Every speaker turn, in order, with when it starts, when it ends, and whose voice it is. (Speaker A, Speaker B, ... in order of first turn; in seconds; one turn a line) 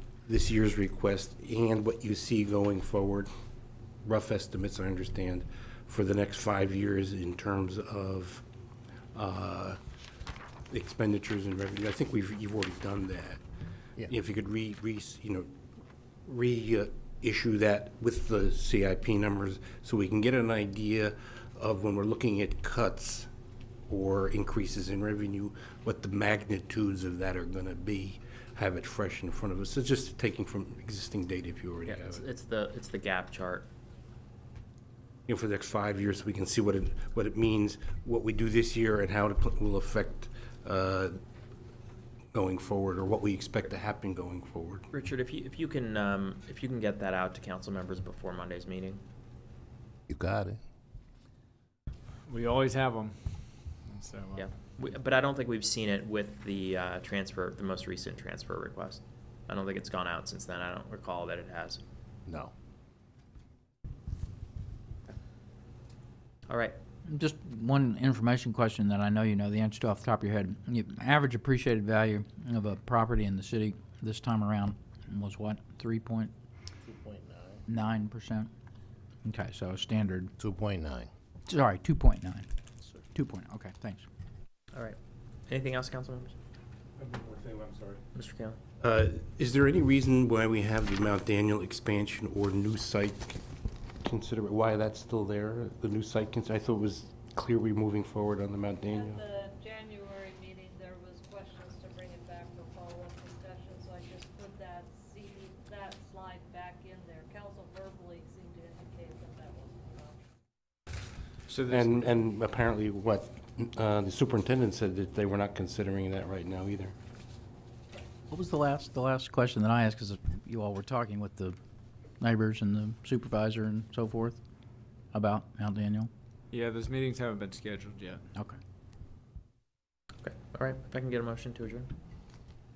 Speaker A: 0.3-3.3
Speaker A: 4.0-8.4
Speaker A: 9.1-9.8
Speaker A: 10.7-13.4
Speaker A: 14.0-15.5
Speaker A: 16.3-23.3
Speaker A: 23.9-32.2
Speaker B: 31.9-33.7
Speaker A: 35.3-41.2
Speaker A: 42.3-44.9
Speaker B: 44.9-49.0
Speaker C: 50.1-50.6
Speaker D: 52.3-54.5
Speaker B: 54.4-61.8
Speaker C: 62.3-62.5
Speaker B: 66.5-66.8
Speaker E: 67.1-76.3
Speaker C: 76.8-77.6
Speaker E: 77.7-78.5
Speaker E: 79.2-80.3
Speaker C: 80.4-81.1
Speaker E: 81.5-84.1
Speaker B: 85.5-86.3
Speaker B: 88.1-88.6
Speaker A: 88.8-93.4
Speaker A: 94.0-99.2
Speaker F: 98.9-110.2
Speaker D: 111.5-112.1
Speaker A: 111.7-117.0
Speaker E: 118.3-121.6
Speaker E: 122.2-124.4
Speaker E: 125.1-126.1
Speaker D: 126.5-128.2
Speaker B: 130.2-131.9